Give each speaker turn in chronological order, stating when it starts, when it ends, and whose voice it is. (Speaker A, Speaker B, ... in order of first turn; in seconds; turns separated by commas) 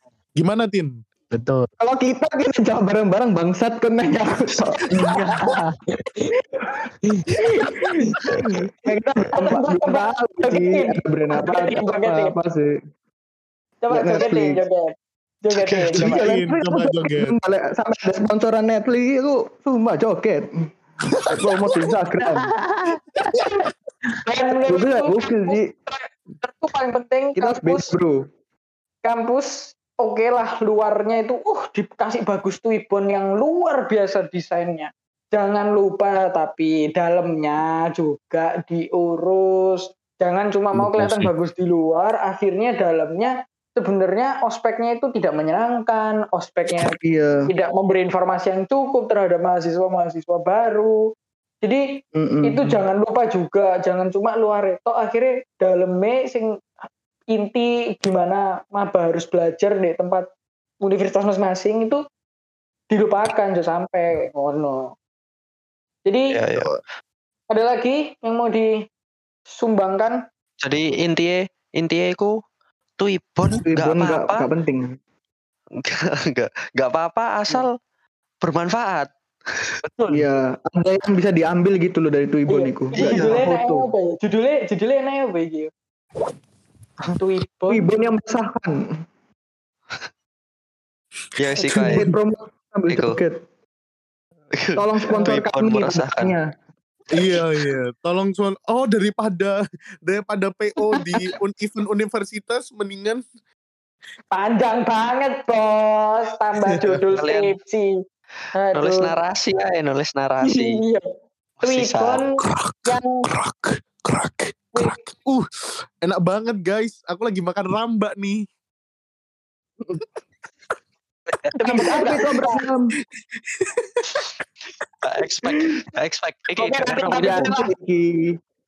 Speaker A: 0.4-0.9, Speaker B: 1.3-1.7, Speaker C: 1.8-5.4, Speaker B: 5.0-5.8, Speaker C: 7.5-7.8, Speaker C: 8.4-12.7, Speaker D: 9.3-12.4, Speaker D: 13.8-14.9, Speaker C: 13.9-14.6, Speaker D: 15.4-16.3, Speaker E: 15.6-15.8, Speaker C: 15.9-20.5, Speaker A: 16.0-17.3, Speaker C: 21.3-22.5, Speaker A: 21.5-22.0, Speaker B: 22.2-23.0, Speaker D: 24.2-27.9, Speaker C: 24.6-25.8, Speaker C: 27.4-28.2, Speaker D: 29.0-47.0, Speaker A: 40.8-41.3, Speaker C: 46.8-47.5, Speaker D: 47.5-51.0, Speaker D: 51.6-56.6, Speaker C: 52.2-52.8, Speaker D: 57.3-60.3, Speaker D: 60.8-62.0, Speaker D: 62.9-64.9, Speaker D: 66.1-66.3, Speaker E: 66.3-66.8, Speaker D: 67.5-68.7, Speaker D: 69.6-70.2, Speaker E: 70.6-72.3, Speaker E: 73.0-74.5, Speaker C: 73.6-75.0, Speaker E: 75.8-77.7, Speaker E: 78.4-79.7, Speaker B: 79.8-80.2, Speaker C: 80.1-83.9, Speaker D: 82.5-85.7, Speaker E: 83.0-83.4, Speaker D: 87.1-87.9, Speaker C: 87.7-88.8, Speaker E: 91.4-92.0, Speaker D: 91.6-92.0, Speaker C: 91.9-93.4, Speaker E: 92.9-93.2, Speaker E: 94.5-96.3, Speaker C: 94.8-96.5, Speaker A: 97.1-103.2, Speaker D: 104.3-107.9, Speaker A: 106.8-107.0, Speaker E: 107.2-107.5, Speaker D: 108.5-109.1, Speaker E: 108.7-110.8, Speaker D: 110.5-111.0, Speaker E: 111.6-112.2, Speaker D: 111.6-113.3, Speaker A: 112.4-115.5, Speaker A: 116.0-118.4, Speaker E: 121.4-122.2, Speaker D: 121.6-122.7, Speaker C: 121.6-123.0, Speaker A: 123.3-123.8, Speaker E: 125.0-127.5, Speaker D: 126.6-127.7, Speaker C: 127.1-128.3